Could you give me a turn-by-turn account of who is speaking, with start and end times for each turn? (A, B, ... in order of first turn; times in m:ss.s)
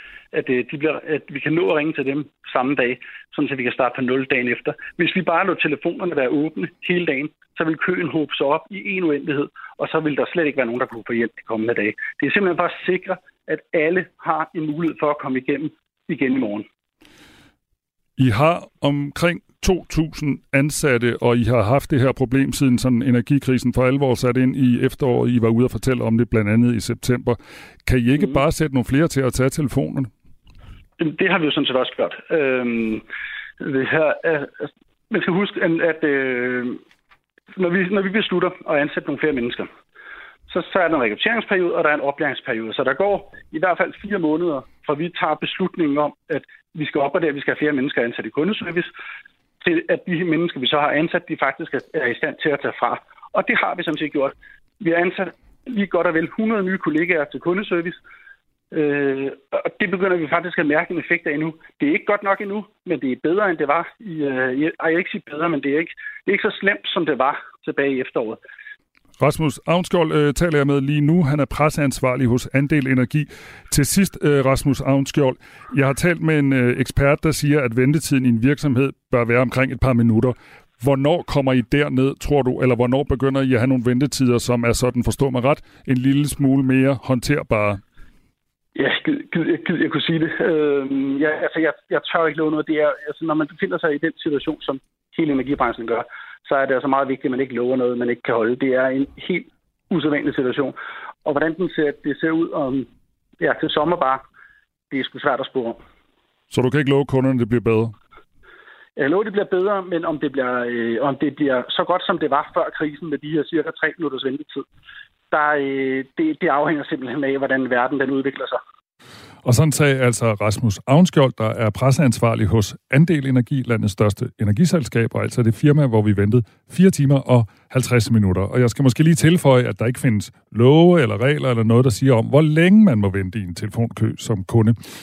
0:00.3-0:16.7 A
0:18.2-0:30.1 B
0:31.0-0:33.0 A
0:33.6-0:36.8 A
0:37.6-0:39.7 A
0:40.5-0:48.9 A
0:49.6-0:58.0 A
0:58.7-1:08.4 A
1:09.2-1:27.8 B
1:28.8-1:42.9 A
1:43.4-1:44.2 A
1:44.9-1:45.8 A
1:46.5-1:47.9 B
1:49.0-1:54.6 A
1:55.3-1:58.6 A
1:59.4-2:14.8 B